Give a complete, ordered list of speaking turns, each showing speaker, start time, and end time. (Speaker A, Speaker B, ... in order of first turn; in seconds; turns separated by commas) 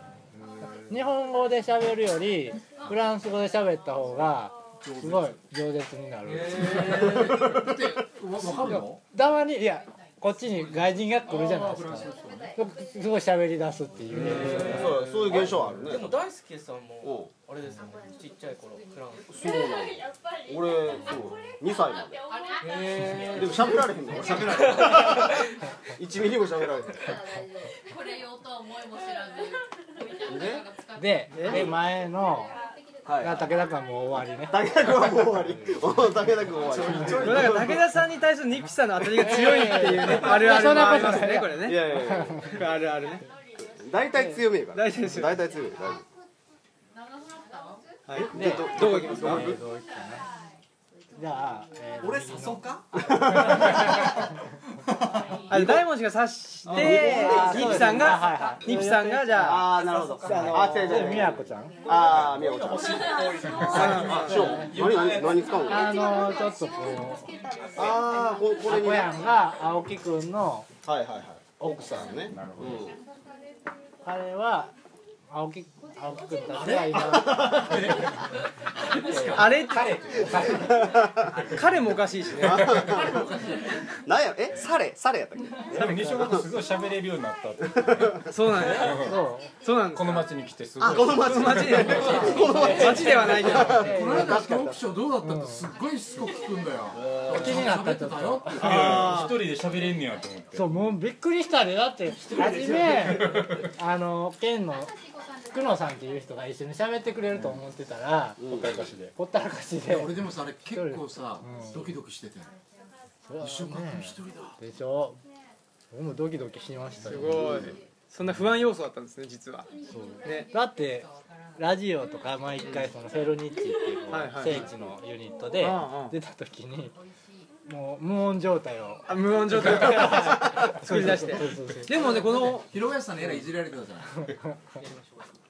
Speaker A: 0.9-7.2, Speaker B: 4.8-5.4, Speaker C: 6.2-7.4, Speaker B: 6.8-9.0, Speaker A: 8.4-15.0, Speaker B: 11.2-12.5, Speaker C: 14.1-19.3, Speaker D: 14.6-16.2, Speaker D: 17.0-17.3, Speaker D: 19.3-22.2, Speaker E: 22.3-23.5, Speaker C: 22.6-25.0, Speaker D: 23.3-25.4, Speaker D: 26.0-27.0, Speaker E: 27.0-31.8, Speaker D: 30.2-30.6, Speaker A: 30.9-32.6, Speaker F: 31.3-31.6, Speaker D: 33.0-33.5, Speaker A: 33.1-35.2, Speaker D: 34.5-37.8, Speaker G: 36.6-37.8, Speaker F: 37.1-41.9, Speaker A: 39.1-42.6, Speaker D: 41.6-42.5, Speaker F: 42.5-43.2, Speaker D: 43.8-46.0, Speaker A: 44.1-44.4, Speaker F: 44.7-45.4, Speaker F: 48.1-49.6, Speaker D: 48.1-49.6, Speaker A: 48.2-50.2, Speaker A: 51.1-52.7, Speaker G: 52.0-52.9, Speaker D: 52.9-54.0, Speaker F: 55.5-59.7, Speaker D: 55.5-55.8, Speaker A: 56.6-61.8, Speaker D: 56.7-58.3, Speaker D: 59.4-63.1, Speaker F: 60.3-60.8, Speaker G: 61.9-65.7, Speaker A: 63.6-65.0, Speaker D: 63.7-66.0, Speaker F: 63.7-64.4, Speaker A: 65.6-67.3, Speaker D: 67.7-69.1, Speaker A: 68.6-70.7, Speaker D: 70.8-73.0, Speaker A: 71.6-72.3, Speaker G: 72.3-72.8, Speaker A: 74.0-74.7, Speaker A: 75.3-78.0, Speaker G: 76.6-78.1, Speaker D: 76.7-77.5, Speaker G: 78.9-81.6, Speaker A: 79.0-79.5, Speaker F: 79.3-79.9, Speaker D: 80.5-81.3, Speaker F: 81.5-82.8, Speaker D: 82.3-83.2, Speaker G: 82.5-83.0, Speaker D: 84.0-86.4, Speaker G: 85.7-89.1, Speaker F: 88.2-90.3, Speaker A: 88.8-89.5, Speaker G: 89.9-93.1, Speaker D: 90.8-94.8, Speaker F: 91.2-93.8, Speaker A: 91.9-94.5, Speaker B: 93.8-99.0, Speaker A: 95.2-95.7, Speaker A: 97.2-99.2, Speaker G: 98.6-100.7, Speaker D: 98.8-99.3, Speaker A: 100.5-105.0, Speaker G: 102.4-103.2, Speaker A: 105.5-112.0, Speaker D: 108.4-108.9, Speaker G: 108.5-109.1, Speaker B: 109.9-112.5, Speaker A: 113.3-115.2, Speaker B: 113.4-114.5, Speaker A: 115.9-117.7, Speaker F: 117.0-119.7, Speaker A: 119.9-126.9, Speaker F: 120.2-120.5, Speaker F: 124.1-124.7, Speaker F: 125.6-126.2, Speaker A: 127.7-132.4, Speaker F: 129.1-132.7, Speaker B: 132.4-134.2, Speaker C: 134.8-135.3